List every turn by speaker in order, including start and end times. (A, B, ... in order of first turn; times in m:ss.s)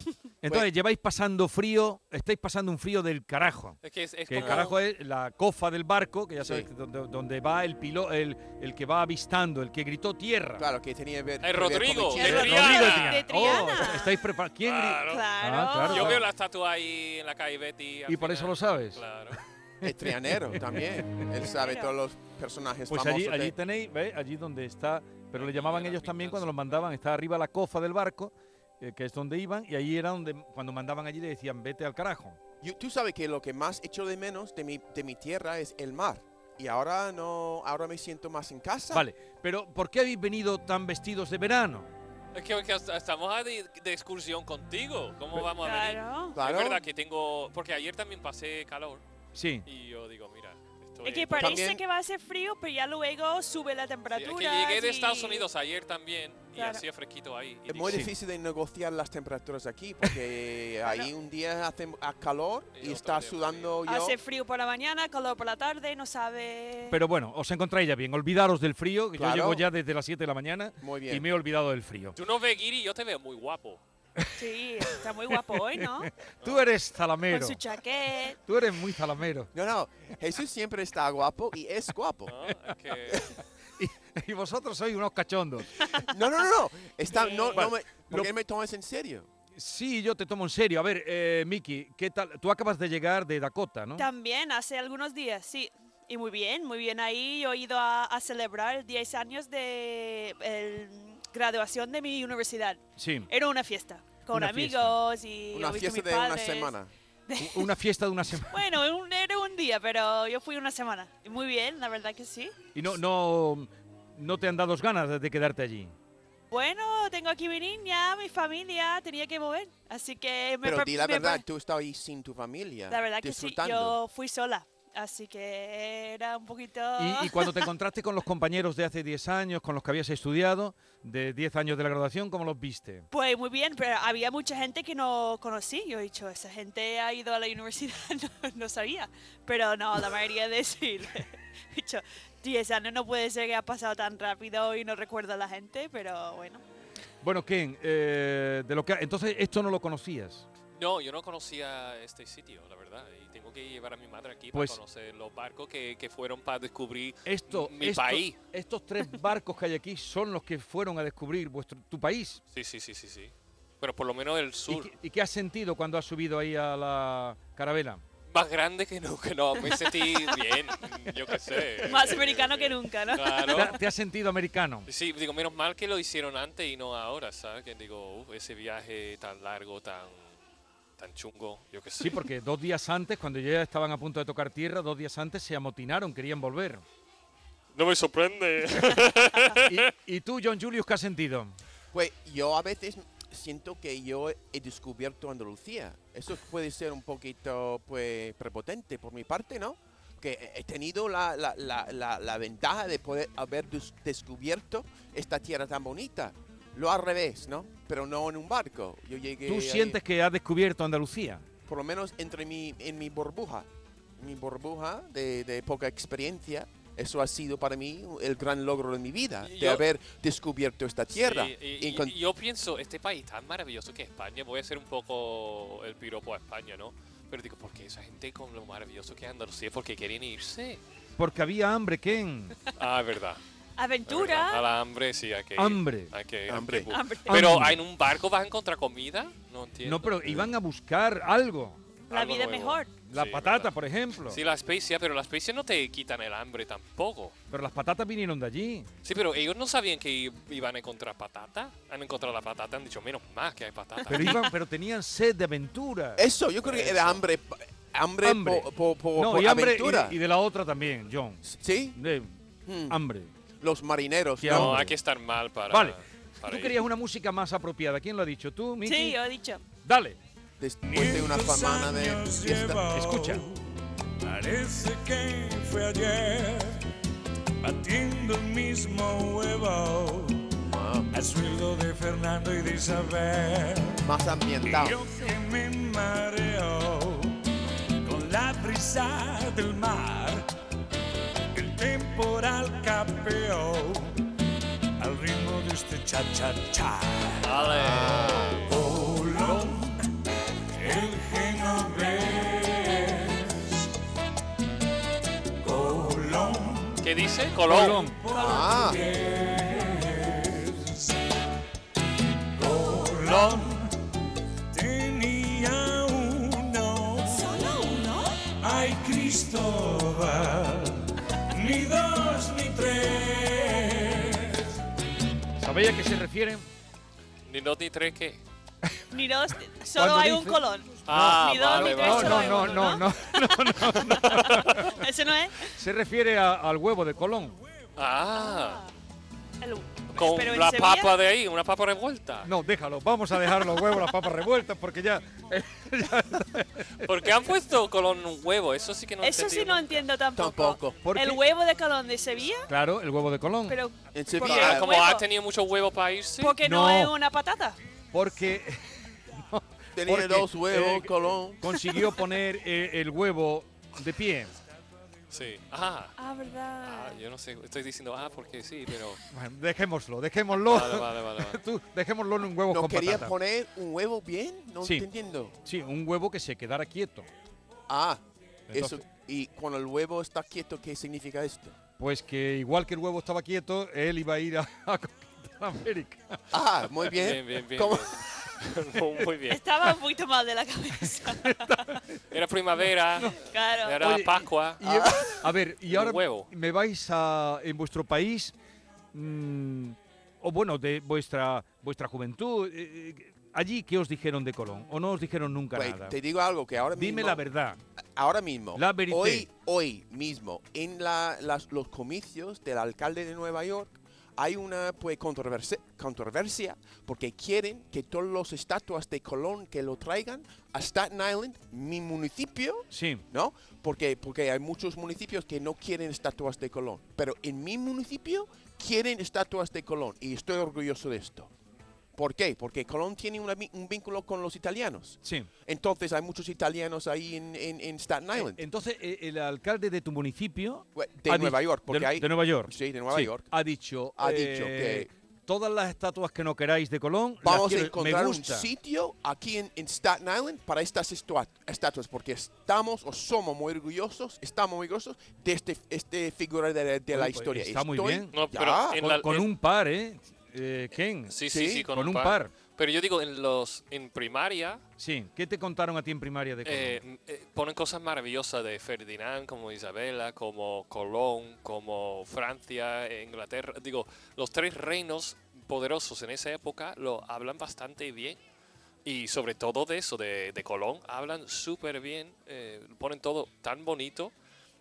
0:00.4-0:03.8 A
0:03.8-0:04.8 B
0:04.3-0:10.6 A
0:06.4-0:06.7 C
0:10.6-0:12.9 C
0:11.4-0:13.9 B
0:12.1-0:14.1 D
0:12.2-0:16.3 A
0:14.6-0:15.3 B
0:15.1-0:16.2 D
0:15.9-0:19.4 B
0:18.1-0:21.2 A
0:19.8-0:23.6 C
0:21.4-0:21.9 D
0:22.9-0:32.4 A
0:25.3-0:26.9 B
0:32.6-0:39.1 C
0:38.9-0:41.9 A
0:42.3-0:49.0 B
0:45.6-0:46.4 D
0:46.4-0:46.8 C
0:49.4-0:49.7 A
0:49.7-0:51.6 B
0:51.0-0:55.5 D
0:51.4-0:51.8 C
0:54.1-0:58.0 B
0:56.5-0:56.8 D
0:57.7-1:04.2 C
0:57.9-0:58.1 A
1:00.8-1:01.1 D
1:02.8-1:03.8 B
1:03.9-1:07.0 D
1:06.9-1:12.2 A
1:09.2-1:09.6 C
1:10.8-1:11.3 C
1:12.2-1:13.8 B
1:14.4-1:16.1 D
1:15.7-1:17.6 A
1:17.3-1:18.4 D
1:18.5-1:19.5 A
1:19.5-1:22.4 C
1:22.3-1:23.3 B
1:23.8-1:25.8 A
1:26.0-1:29.3 C
1:27.1-1:27.6 D
1:27.5-1:28.3 A
1:29.6-1:34.1 A
1:34.0-1:46.7 D
1:43.0-1:43.3 A
1:44.3-1:45.0 A
1:45.5-1:46.9 C
1:47.3-1:47.7 D
1:47.4-1:48.6 A
1:48.5-1:52.6 D
1:52.7-1:55.9 A
1:56.5-2:01.4 D
2:00.6-2:04.0 C
2:02.9-2:07.7 D
2:07.0-2:13.1 A
2:13.1-2:26.6 D
2:27.2-2:30.4 A
2:30.8-2:38.4 B
2:34.5-2:34.8 A
2:37.2-2:42.4 A
2:42.5-2:44.9 B
2:44.7-2:48.0 A
2:48.3-2:53.8 B
2:51.9-2:53.8 D
2:53.5-2:54.9 A
2:54.9-3:00.3 B
3:01.0-3:02.2 B
3:02.0-3:06.8 A
3:07.7-3:09.8 B
3:09.6-3:11.6 A
3:11.9-3:30.0 C
3:29.4-3:31.4 A
3:31.7-3:33.7 C
3:34.2-3:42.2 C
3:39.4-3:39.9 B
3:41.1-3:50.8 B
3:51.2-3:52.6 A
3:52.8-3:53.4 B
3:53.8-3:54.7 D
3:54.1-4:00.4 B
3:55.6-3:56.1 A
3:56.5-3:56.9 C
3:56.9-3:57.4 D
3:57.3-3:57.8 A
3:59.8-4:01.8 A
4:02.1-4:02.9 D
4:02.1-4:03.7 B
4:03.1-4:04.4 A
4:04.3-4:07.3 B
4:07.5-4:08.9 A
4:09.0-4:14.5 B
4:14.1-4:16.2 A
4:16.2-4:20.2 C
4:16.7-4:17.2 B
4:18.2-4:21.4 A
4:21.4-4:22.0 C
4:22.0-4:22.4 A
4:22.7-4:23.0 C
4:22.9-4:23.3 A
4:23.6-4:24.8 C
4:24.4-4:25.0 A
4:24.5-4:26.8 B
4:25.7-4:29.2 A
4:28.8-4:29.6 D
4:29.8-4:30.2 A
4:30.6-4:32.8 C
4:30.8-4:36.8 E
4:32.9-4:33.4 A
4:37.6-4:40.5 E
4:40.7-4:41.1 C
4:41.1-4:44.1 E
4:44.0-4:45.0 C
4:44.6-4:47.4 E
4:48.0-4:50.4 E
4:51.5-4:54.2 E
4:55.0-4:57.6 E
4:57.4-4:58.6 B
4:57.6-4:58.7 C
4:58.7-5:00.1 E
5:00.7-5:03.9 E
5:05.6-5:07.1 E
5:07.0-5:08.0 B
5:07.6-5:08.2 A
5:07.9-5:11.3 E
5:08.3-5:09.0 C
5:12.6-5:14.0 E
5:14.7-5:17.9 E
5:17.3-5:18.4 D
5:18.6-5:24.7 E
5:25.6-5:26.6 A
5:27.5-5:28.4 B
5:29.1-5:35.7 D
5:30.0-5:34.9 A
5:31.1-5:33.0 B
5:34.1-5:34.9 B
5:35.8-5:37.6 A
5:38.0-5:38.8 B
5:38.4-5:38.9 D
5:39.6-5:41.2 D
5:40.1-5:42.5 B
5:42.4-5:47.1 A
5:47.0-5:50.1 B
5:49.2-5:52.7 D
5:50.4-5:51.0 C
5:51.0-5:51.4 A
5:52.7-5:53.8 A
5:53.7-5:55.2 D
5:54.1-5:54.9 C
5:54.4-5:56.6 B
5:56.4-5:57.8 D
5:56.6-5:57.1 A
5:58.1-6:04.5 A
6:00.0-6:01.8 C
6:05.3-6:06.2 B
6:06.2-6:07.2 D
6:06.8-6:09.2 B
6:09.3-6:13.4 A
6:10.6-6:11.6 B
6:12.7-6:15.6 C
6:14.8-6:15.1 A
6:15.6-6:17.3 A
6:17.9-6:21.8 C
6:18.7-6:19.0 A
6:22.0-6:26.4 A
6:26.5-6:28.1 C
6:27.1-6:29.6 B
6:29.5-6:32.0 D
6:31.3-6:32.2 A
6:32.3-6:34.8 B
6:33.3-6:34.1 D
6:34.0-6:38.5 A
6:34.9-6:35.4 C
6:35.9-6:36.5 B
6:39.1-6:46.2 A
6:45.7-6:47.4 C
6:46.9-6:47.8 A
6:48.2-7:11.5 C
6:48.8-6:49.5 A
7:02.9-7:03.2 A
7:12.2-7:18.6 C
7:15.2-7:15.5 A
7:18.4-7:28.7 A
7:21.0-7:23.5 C
7:24.2-7:25.1 C
7:27.4-7:39.2 C
7:37.1-7:38.5 A
7:38.3-7:39.5 B
7:39.0-7:41.4 A
7:41.3-7:44.8 B
7:41.5-7:41.9 C
7:41.9-7:42.5 A
7:45.0-7:47.0 A
7:46.7-7:58.4 B
7:59.0-8:04.3 B